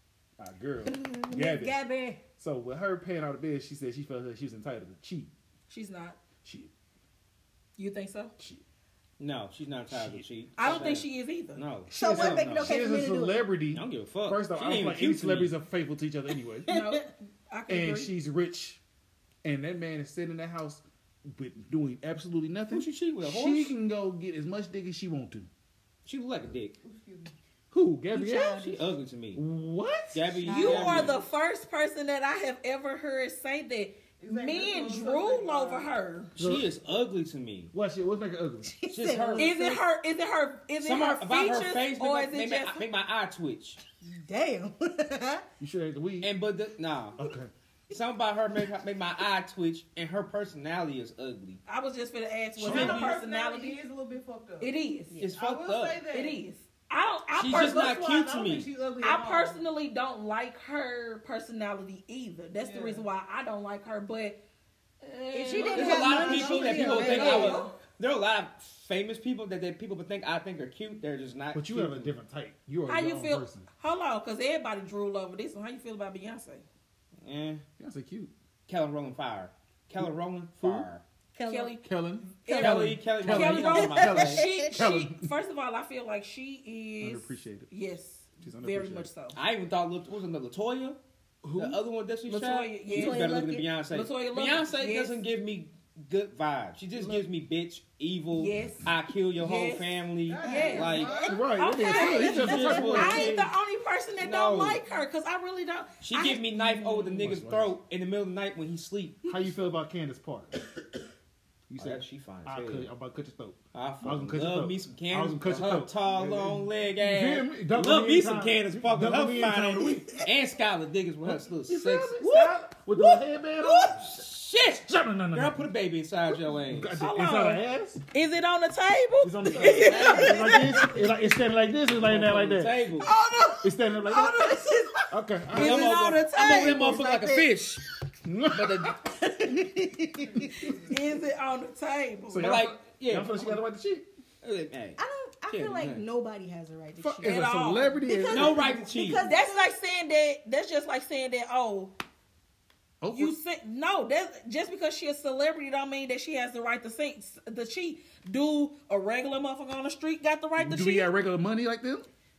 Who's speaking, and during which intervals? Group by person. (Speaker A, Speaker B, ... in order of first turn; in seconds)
Speaker A: 0.4-1.8, 2.4-5.3, 6.4-6.7, 9.9-10.9, 11.9-16.7, 17.7-18.8, 19.4-25.5, 27.7-28.6, 29.3-31.1, 36.4-36.7, 37.7-38.8, 45.6-46.3, 47.2-47.5, 71.5-73.7, 77.8-78.3, 80.6-80.9, 81.8-85.3, 87.0-87.7, 88.4-89.1, 91.4-91.8, 101.2-103.4, 107.2-107.8, 109.2-110.6, 111.7-120.2, 121.2-124.3, 124.8-125.7, 126.5-128.0, 129.2-132.8, 133.6-134.6, 135.1-135.9, 138.2-139.0, 142.3-144.1, 147.0-148.8, 153.0-153.3, 160.6-162.1
Speaker B: 0.9-2.2, 11.9-13.5, 16.7-17.0, 28.1-28.9, 30.5-31.0, 38.7-39.8, 44.0-45.5, 65.3-67.6, 81.3-81.8, 83.8-84.8, 92.9-93.7, 101.9-103.0, 136.3-137.5, 139.2-140.8, 145.0-147.4, 148.0-149.7
Speaker C: 5.7-6.2, 7.8-8.3, 10.6-11.6, 16.7-18.1, 30.5-36.3, 39.4-42.8, 51.7-53.8, 54.6-55.2, 56.1-58.0, 59.0-64.4, 65.0-67.7, 72.9-76.7, 81.5-81.8, 82.5-89.4, 92.3-95.2, 97.0-97.2, 98.3-107.2, 127.0-131.0, 133.0-137.1, 140.7-142.5, 147.2-148.0, 149.2-151.9, 153.1-161.1
Speaker D: 9.2-12.8, 13.7-15.5, 22.7-23.7, 26.0-26.8, 28.5-29.4, 30.1-31.2, 36.4-37.7, 38.9-39.5, 40.8-43.8, 46.2-47.2, 47.9-51.6, 52.6-53.2, 55.2-56.0, 57.3-58.7, 65.6-72.1, 77.2-77.6, 78.7-81.0, 82.5-84.4, 89.3-91.0, 91.5-101.2, 101.9-103.5, 104.2-104.8, 106.0-109.2, 111.8-112.9, 113.7-122.5, 123.8-127.0, 129.6-130.8, 131.9-133.1, 135.5-137.8, 138.5-139.0, 142.4-143.6, 144.4-145.0, 145.5-146.0, 148.3-149.2
Speaker E: 26.8-27.3, 34.2-35.9, 52.6-54.7, 55.3-56.4, 57.4-59.6, 62.6-63.0, 65.9-67.7, 100.3-101.5